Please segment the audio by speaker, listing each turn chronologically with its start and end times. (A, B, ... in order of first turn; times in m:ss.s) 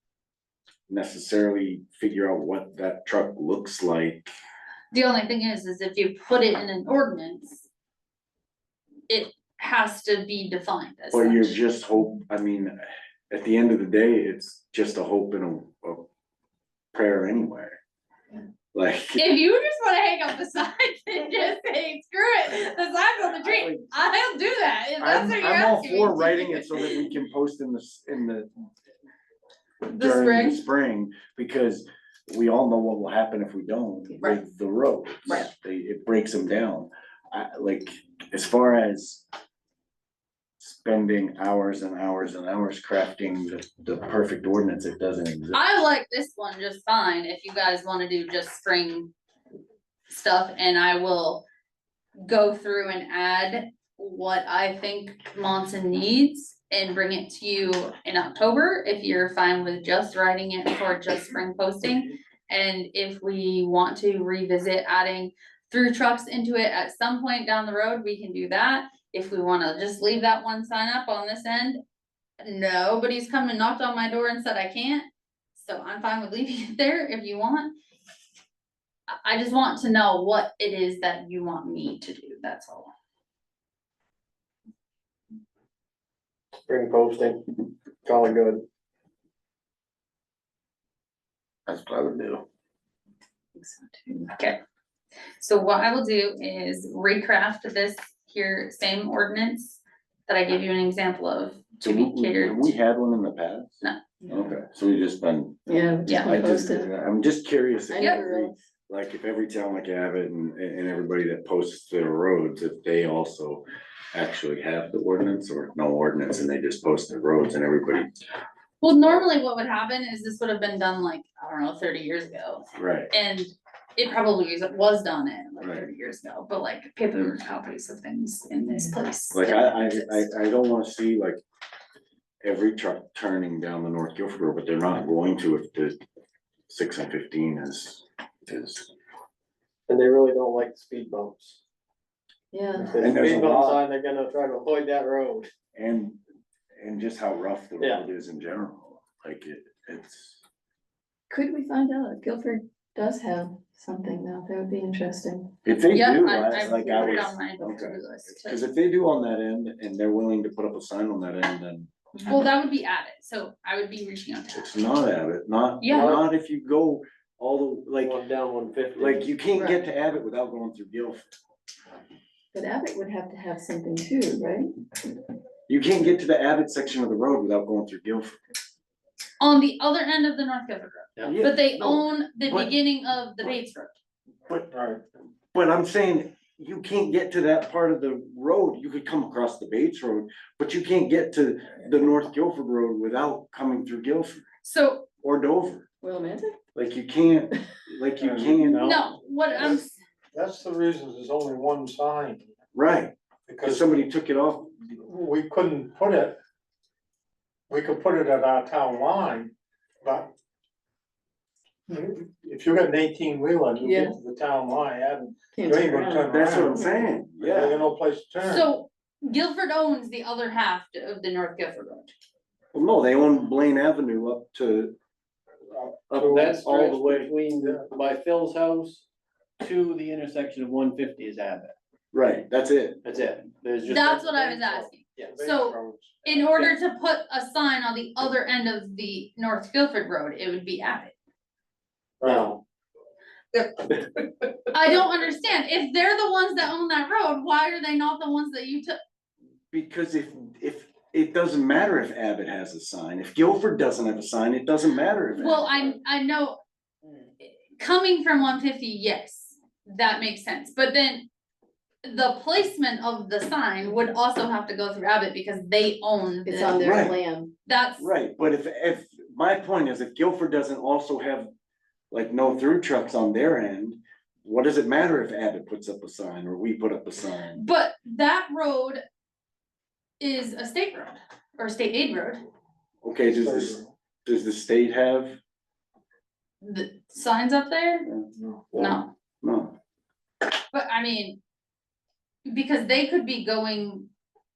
0:00.9-0:04.3 A
0:04.9-0:07.7 B
0:09.1-0:11.6 B
0:11.1-0:12.8 A
0:13.3-0:16.1 A
0:16.9-0:17.8 A
0:18.7-0:19.2 A
0:19.2-0:27.1 B
0:23.4-0:23.8 A
0:25.0-0:28.5 A
0:29.8-0:30.6 B
0:29.9-0:39.2 A
0:40.6-0:45.6 A
0:45.5-0:49.1 B
0:50.1-0:51.4 B
0:52.2-1:11.8 B
1:12.4-1:17.7 B
1:19.2-1:22.9 B
1:26.6-1:27.4 C
1:28.0-1:28.6 C
1:31.7-1:32.4 A
1:33.6-1:34.3 D
1:35.4-1:42.7 B
1:41.8-1:58.1 A
1:45.7-1:46.9 D
1:46.1-1:46.4 B
1:47.9-1:48.6 D
1:48.0-1:48.2 B
1:58.8-2:10.3 B
2:02.8-2:03.1 A
2:05.6-2:05.9 A
2:09.3-2:11.4 A
2:12.4-2:16.0 A
2:16.7-2:18.9 A
2:19.9-2:21.6 C
2:22.5-2:23.2 D
2:22.8-2:25.5 C
2:23.0-2:23.8 A
2:25.8-2:26.2 A
2:26.8-2:30.4 A
2:31.3-2:35.5 D
2:35.6-2:41.9 A
2:35.9-2:38.7 B
2:42.2-2:44.7 B
2:44.6-2:48.2 A
2:45.8-2:46.2 B
2:45.9-2:46.2 C
2:48.0-2:49.3 C
2:49.0-2:51.3 A
2:52.5-2:54.7 D
2:55.7-2:58.4 A
2:59.4-3:03.9 B
3:01.2-3:02.7 A
3:04.7-3:05.0 E
3:05.5-3:14.4 A
3:14.6-3:15.1 B
3:15.2-3:15.8 A
3:16.0-3:16.6 D
3:16.8-3:19.0 A
3:18.2-3:22.5 E
3:18.8-3:20.0 B
3:22.7-3:24.7 A
3:23.5-3:23.9 E
3:25.0-3:26.4 E
3:27.7-3:29.5 E
3:30.0-3:30.3 E
3:31.9-3:38.7 E
3:33.8-3:34.2 D
3:35.5-3:36.8 D
3:36.3-3:37.8 A
3:38.4-3:42.1 B
3:42.7-3:44.9 A
3:45.7-3:46.7 E
3:46.1-3:47.3 A
3:46.3-3:49.0 C
3:47.5-3:47.9 E
3:49.6-3:51.8 C
3:52.1-3:53.0 A
3:53.0-3:55.4 C
3:53.9-4:01.2 B
3:54.8-3:56.6 E
4:02.2-4:02.5 E
4:02.2-4:02.6 C
4:03.8-4:04.5 C
4:04.7-4:09.0 B
4:09.7-4:15.8 A
4:15.4-4:16.6 B
4:17.8-4:21.3 B
4:22.0-4:26.9 B
4:26.4-4:27.5 D
4:26.8-4:27.2 A
4:27.7-4:28.1 B
4:28.0-4:31.5 A
4:32.1-4:37.6 A
4:37.5-4:39.0 B
4:40.2-4:42.4 B
4:43.0-4:45.4 A
4:43.2-4:43.9 E
4:46.6-4:48.1 B
4:48.4-4:48.7 E
4:48.7-4:49.0 C
4:48.8-4:49.1 B
4:49.4-4:49.7 A
4:50.7-4:51.4 B
4:52.5-4:54.1 B